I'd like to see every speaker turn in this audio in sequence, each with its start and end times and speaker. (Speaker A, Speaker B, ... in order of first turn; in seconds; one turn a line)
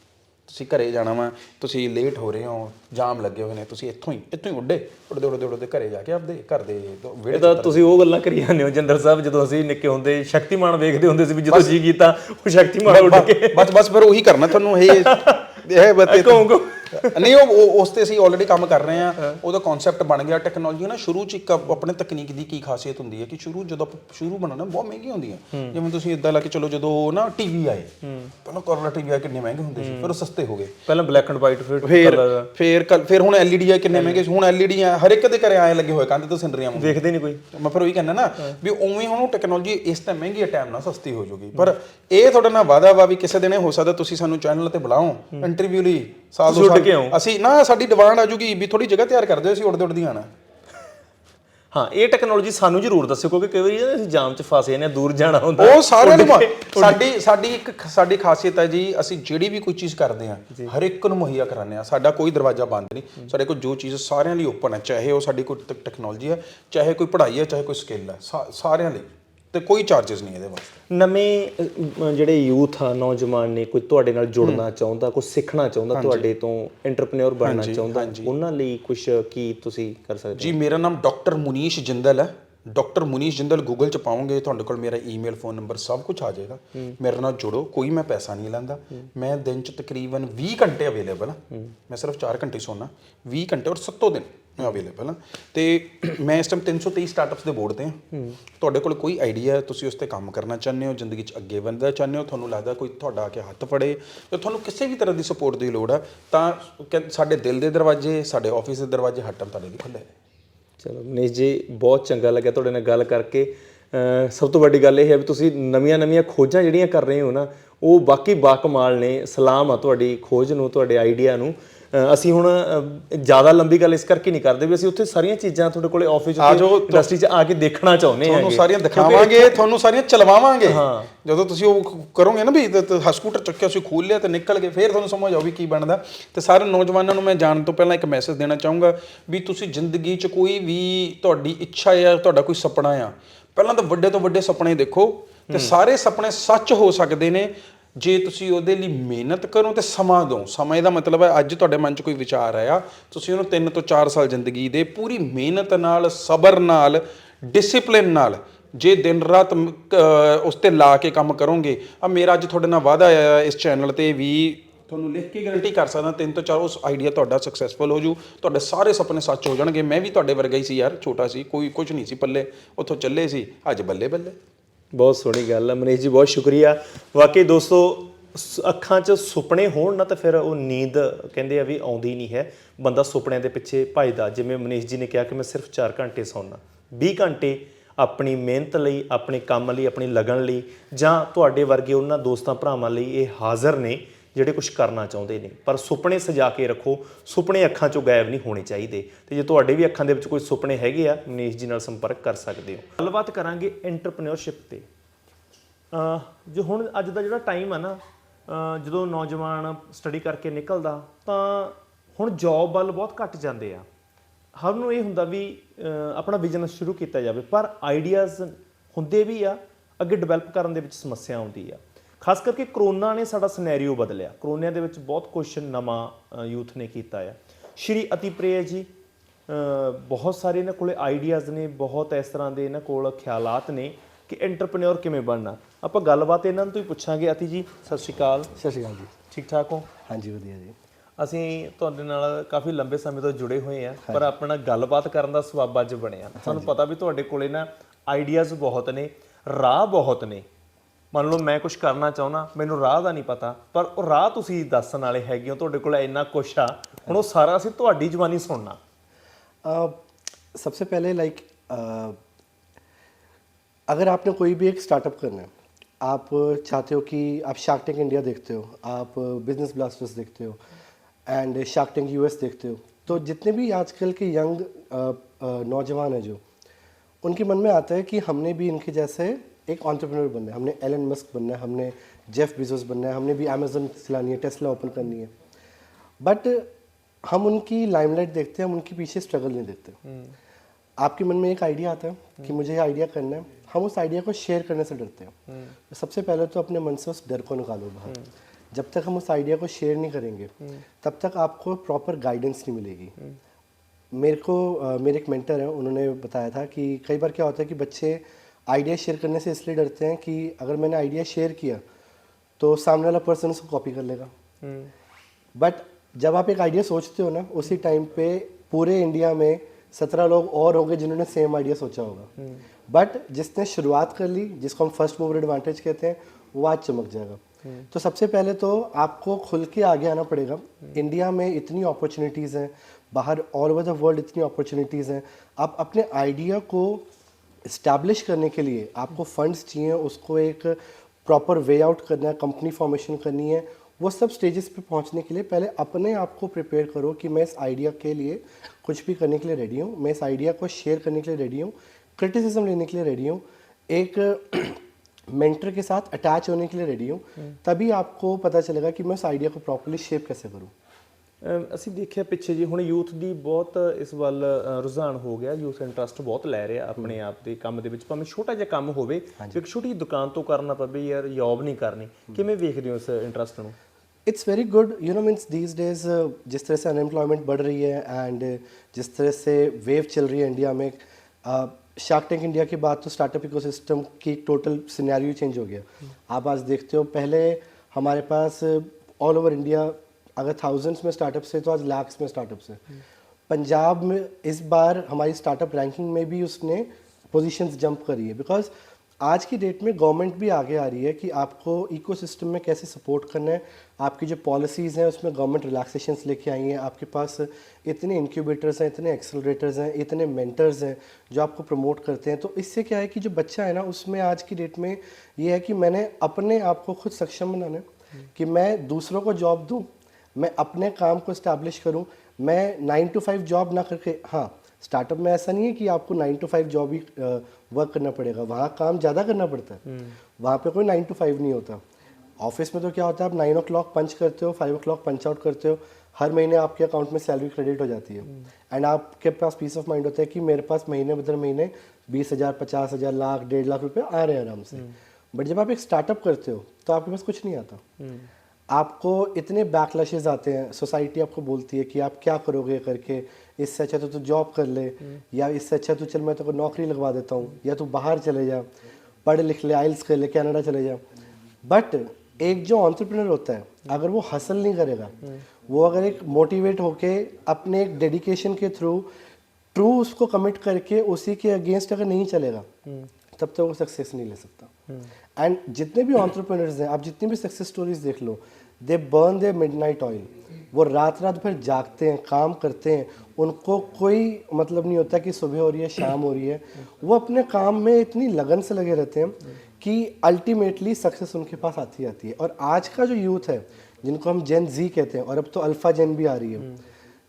Speaker A: 0.5-7.8
Speaker B: 7.3-13.7
Speaker A: 11.5-11.8
Speaker A: 12.9-27.9
Speaker B: 14.8-17.2
Speaker B: 28.0-28.3
Speaker A: 28.4-30.8
Speaker B: 29.8-30.2
Speaker B: 30.9-32.5
Speaker A: 31.8-50.3
Speaker B: 33.9-34.2
Speaker B: 36.8-37.4
Speaker B: 46.5-47.2
Speaker B: 51.7-57.0
Speaker A: 55.6-70.8
Speaker B: 70.9-80.5
Speaker A: 75.9-76.3
Speaker A: 77.4-78.3
Speaker A: 80.3-98.0
Speaker B: 98.1-98.4
Speaker A: 98.6-110.1
Speaker B: 110.8-129.6
Speaker A: 126.4-127.1
Speaker A: 128.2-174.4
Speaker B: 130.7-131.1
Speaker B: 174.9-204.9
Speaker B: 205.9-213.9
Speaker B: 214.6-228.9
Speaker B: 229.5-238.5
Speaker C: 238.6-239.1
Speaker B: 239.3-239.9
Speaker C: 240.1-240.8
Speaker B: 241.2-250.5
Speaker C: 246.4-246.7
Speaker B: 251.1-258.8
Speaker C: 259.6-260.0
Speaker C: 260.5-262.2
Speaker C: 263.9-270.6
Speaker C: 271.3-276.4
Speaker C: 277.2-285.3
Speaker C: 286.2-286.7
Speaker C: 287.2-290.0
Speaker B: 290.1-290.3
Speaker C: 291.0-295.4
Speaker B: 295.5-295.8
Speaker C: 295.9-298.2
Speaker C: 298.7-303.1
Speaker C: 304.1-311.8
Speaker C: 312.6-314.3
Speaker B: 314.6-314.9
Speaker C: 315.6-322.3
Speaker C: 322.9-337.1
Speaker C: 337.7-360.7
Speaker B: 361.4-373.8
Speaker C: 374.3-392.9
Speaker C: 393.5-429.8
Speaker B: 429.9-430.2
Speaker C: 430.4-431.8
Speaker C: 432.4-447.8
Speaker B: 448.0-448.3
Speaker C: 448.7-458.7
Speaker C: 459.2-461.0
Speaker C: 461.6-465.2
Speaker C: 465.7-469.1
Speaker C: 469.7-472.7
Speaker C: 473.3-474.7
Speaker C: 475.4-496.7